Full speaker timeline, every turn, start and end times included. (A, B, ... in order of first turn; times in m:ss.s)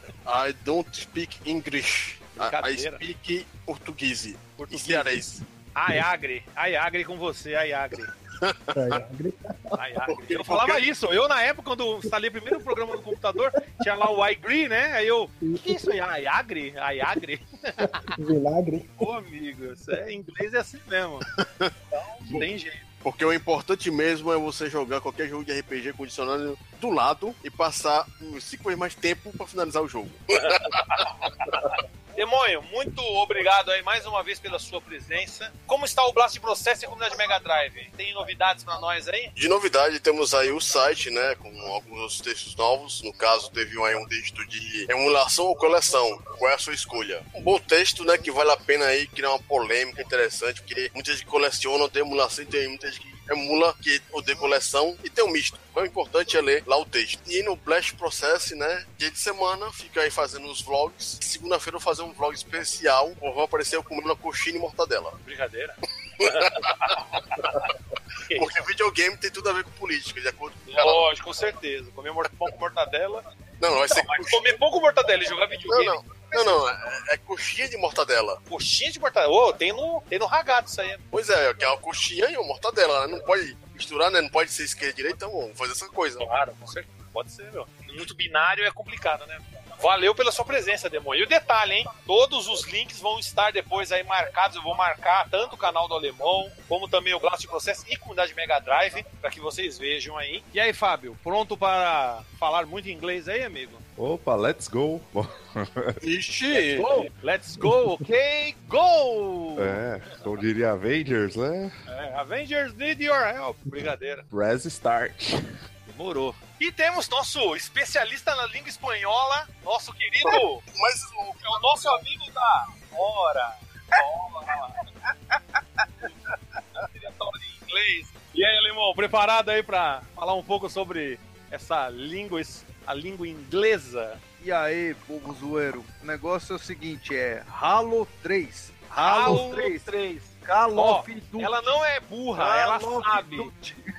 0:00.2-0:05.4 A
0:02.4-0:03.0 B
0:04.6-0:08.1 B
0:08.3-0:09.0 A
0:08.7-0:09.8 C
0:09.8-0:18.2 B
0:10.1-0:10.8 A
0:15.4-0:15.9 C
0:17.8-0:19.1 C
0:19.0-0:21.3 B
0:21.4-0:22.4 A
0:21.9-0:22.8 B
0:23.0-0:31.8 A
0:30.4-0:39.3 B
0:39.4-1:05.2 A
1:05.2-1:07.7 B
1:06.2-1:07.7 A
1:08.2-1:08.6 B
1:08.3-1:11.0 A
1:10.7-1:13.2 B
1:13.6-1:14.4 A
1:13.8-1:16.6 B
1:15.7-1:18.4 A
1:18.5-1:21.0 B
1:21.1-1:26.3 A
1:26.2-1:43.8 B
1:44.0-1:46.0 D
1:46.0-1:47.0 A
1:46.5-1:49.8 B
1:49.6-1:51.8 D
1:51.9-1:54.3 B
1:54.3-1:55.5 D
1:55.9-2:00.6 B
2:00.2-2:02.0 A
2:01.4-2:04.8 B
2:05.3-2:06.1 E
2:06.8-2:14.2 B
2:14.4-2:19.9 E
2:19.0-2:23.5 B
2:20.4-2:21.6 E
2:22.4-2:23.8 E